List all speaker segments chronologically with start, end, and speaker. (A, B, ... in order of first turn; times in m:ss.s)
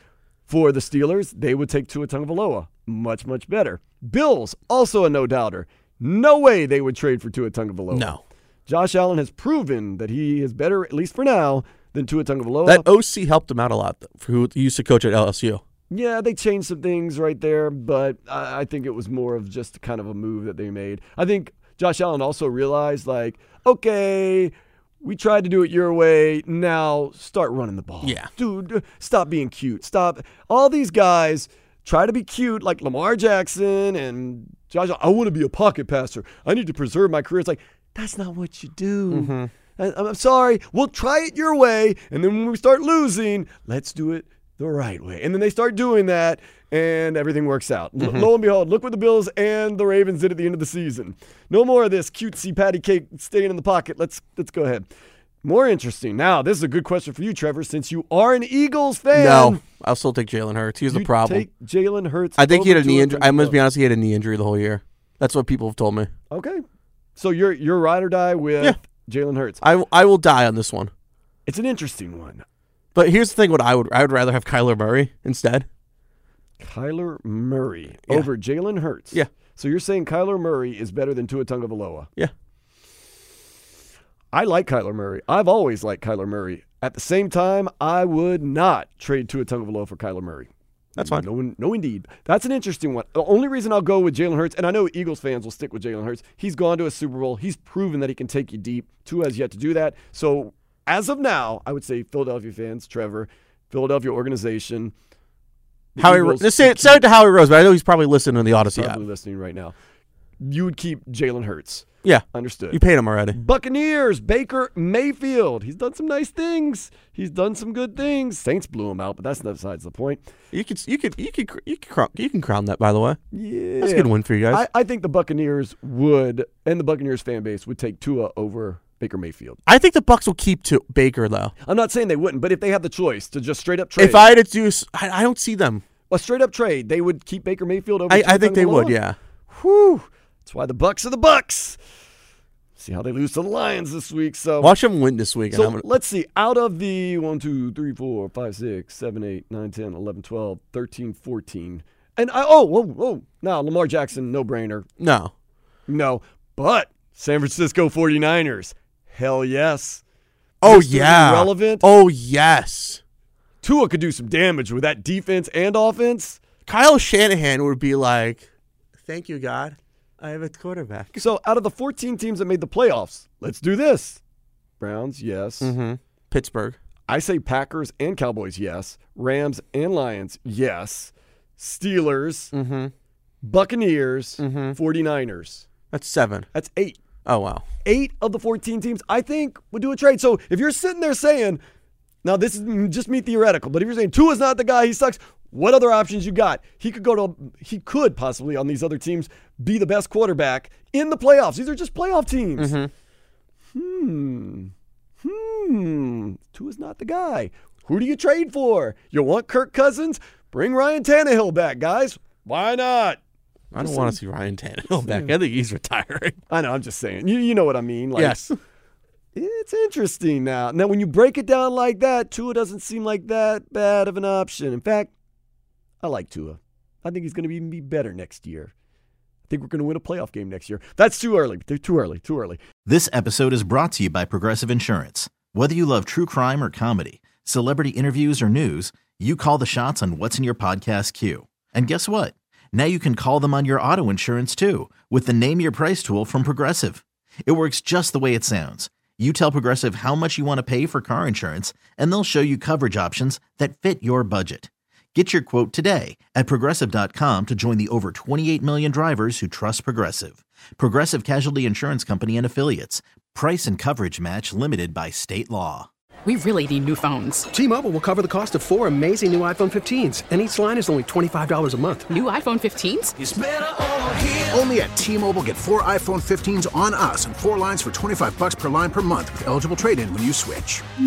0:00.5-0:12.9 A
0:07.9-0:08.2 B
0:12.6-0:15.6 B
0:15.9-0:54.9 A
0:28.0-0:28.3 B
0:39.1-0:39.5 B
0:48.0-0:48.3 B
0:55.4-0:59.6 A
0:59.1-1:01.4 B
1:00.9-1:03.6 A
1:02.4-1:06.1 B
1:06.3-1:06.6 A
1:07.2-1:09.6 A
1:09.6-1:10.9 B
1:11.4-1:12.4 A
1:12.9-1:15.6 B
1:16.6-1:22.1 A
1:24.3-1:44.9 A
1:31.0-1:31.2 B
1:45.9-1:47.0 A
1:46.0-1:49.0 B
1:48.7-1:49.7 A
1:50.4-1:52.8 A
1:52.0-1:53.4 B
1:53.3-2:00.2 A
2:00.5-2:03.2 B
2:03.3-2:09.6 A
2:03.8-2:04.6 B
2:09.6-2:11.5 B
2:11.6-2:14.3 A
2:14.0-2:15.8 B
2:16.1-2:19.0 A
2:18.1-2:19.2 B
2:19.5-2:21.8 A
2:22.8-2:24.7 A
2:24.6-2:25.8 B
2:25.5-2:34.8 A
2:35.0-2:35.3 B
2:35.9-2:40.0 A
2:40.6-2:43.0 B
2:40.6-2:41.8 A
2:43.6-2:46.4 A
2:46.7-2:48.5 B
2:49.0-2:51.2 B
2:51.1-2:54.2 A
2:54.8-2:55.7 A
2:55.6-2:56.8 B
2:57.1-3:02.5 A
3:02.5-3:02.9 B
3:03.4-3:05.7 A
3:04.4-3:04.8 B
3:05.9-3:06.4 B
3:06.5-3:07.0 A
3:07.2-3:07.6 B
3:07.8-3:11.6 A
3:12.2-3:22.8 A
3:22.6-3:22.9 B
3:23.7-3:24.7 A
3:25.2-3:33.2 A
3:33.7-3:36.4 B
3:33.8-3:34.2 A
3:35.1-3:35.3 A
3:36.5-3:38.4 A
3:38.2-3:38.6 B
3:39.3-3:45.1 A
3:46.0-3:48.7 A
3:49.5-3:52.6 A
3:52.8-4:25.9 C
4:26.2-4:27.4 D
4:27.5-4:32.1 E
4:32.1-4:33.1 D
4:34.1-4:40.8 F